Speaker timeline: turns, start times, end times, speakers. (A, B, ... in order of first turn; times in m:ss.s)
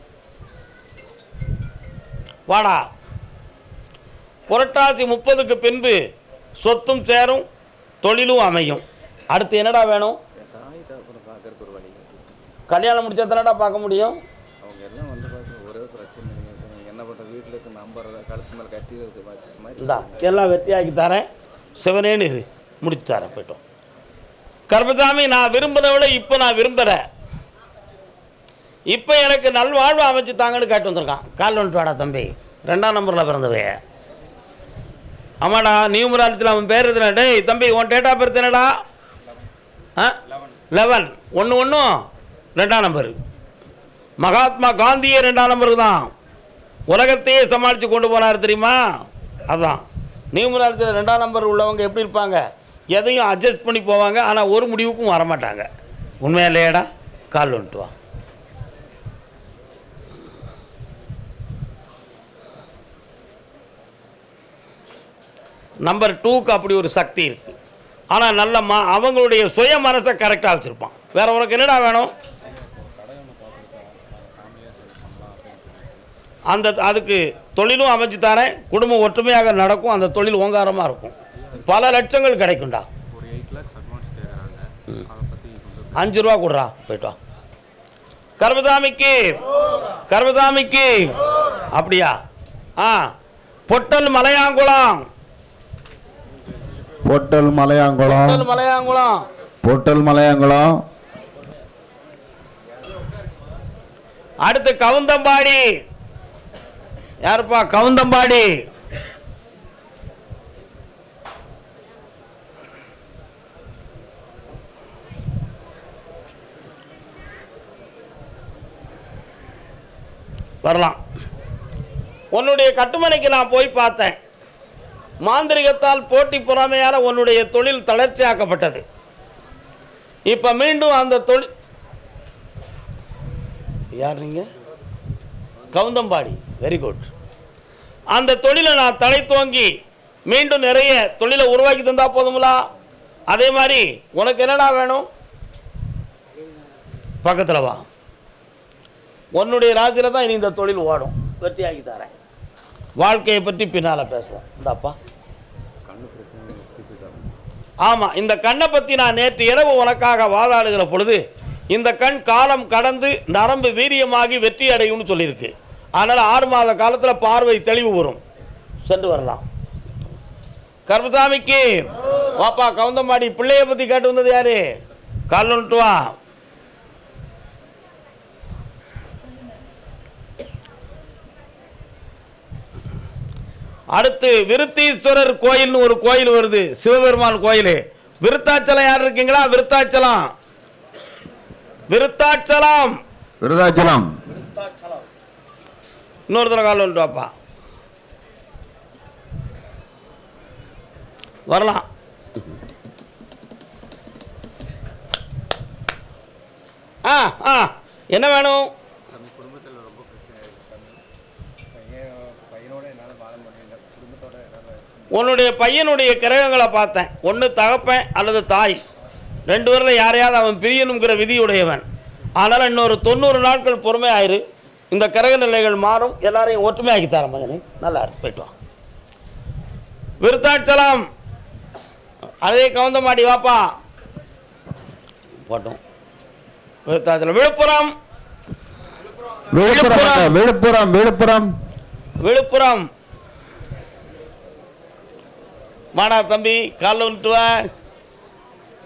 0:02.5-0:02.8 A
0:04.5-0:06.0 A
0:06.6-0:07.4 A
0:08.0-0:10.2 A
0:10.4-0:12.3 B
0:12.7-0:14.2 A
0:14.6-0:20.2 B
0:19.8-0:21.2 A
0:21.8-0:23.6 A
0:24.7-0:27.0 A
0:28.9-0:33.8 A
0:35.4-0:38.7 A
0:40.7-0:42.0 A
0:42.6-0:43.2 A
0:44.2-0:46.1 A
0:46.9-0:48.8 A
0:49.5-0:55.7 A
0:56.2-0:57.9 A
1:05.8-1:07.6 A
1:08.1-1:12.1 A
1:12.5-1:16.0 B
1:16.5-1:22.9 A
1:21.4-1:21.7 B
1:23.1-1:26.1 B
1:26.0-1:27.2 A
1:28.4-1:29.4 A
1:30.1-1:31.1 A
1:31.7-1:32.1 A
1:32.8-1:33.1 A
1:33.7-1:35.1 A
1:37.0-1:38.5 C
1:38.0-1:39.2 A
1:39.6-1:40.8 C
1:44.4-1:45.6 A
1:47.2-1:48.5 A
2:00.6-2:01.0 A
2:02.3-2:04.2 A
2:05.2-2:08.8 A
2:10.3-2:11.5 A
2:13.9-2:14.5 A
2:15.7-2:17.1 A
2:18.1-2:19.7 A
2:20.3-2:22.6 A
2:23.3-2:25.1 A
2:27.2-2:27.8 A
2:29.3-2:32.1 A
2:33.0-2:35.0 A
2:35.8-2:37.3 B
2:37.8-2:48.2 A
2:48.8-2:49.4 A
2:50.9-2:54.6 A
2:55.3-2:56.1 A
3:03.9-3:10.3 A
3:11.9-3:13.0 A
3:13.4-3:14.1 C
3:16.3-3:17.3 A
3:21.5-3:21.8 A
3:27.0-3:28.7 A
3:29.0-3:31.0 B
3:31.7-3:35.1 B
3:35.1-3:38.8 A
3:39.5-3:41.8 A
3:42.4-3:48.5 A
3:50.2-3:51.1 A
3:52.4-3:53.7 A
3:55.4-3:55.8 A
3:56.9-3:57.9 A
3:59.5-4:01.5 C
3:59.6-4:00.4 A
4:02.2-4:02.9 A
4:05.9-4:07.7 A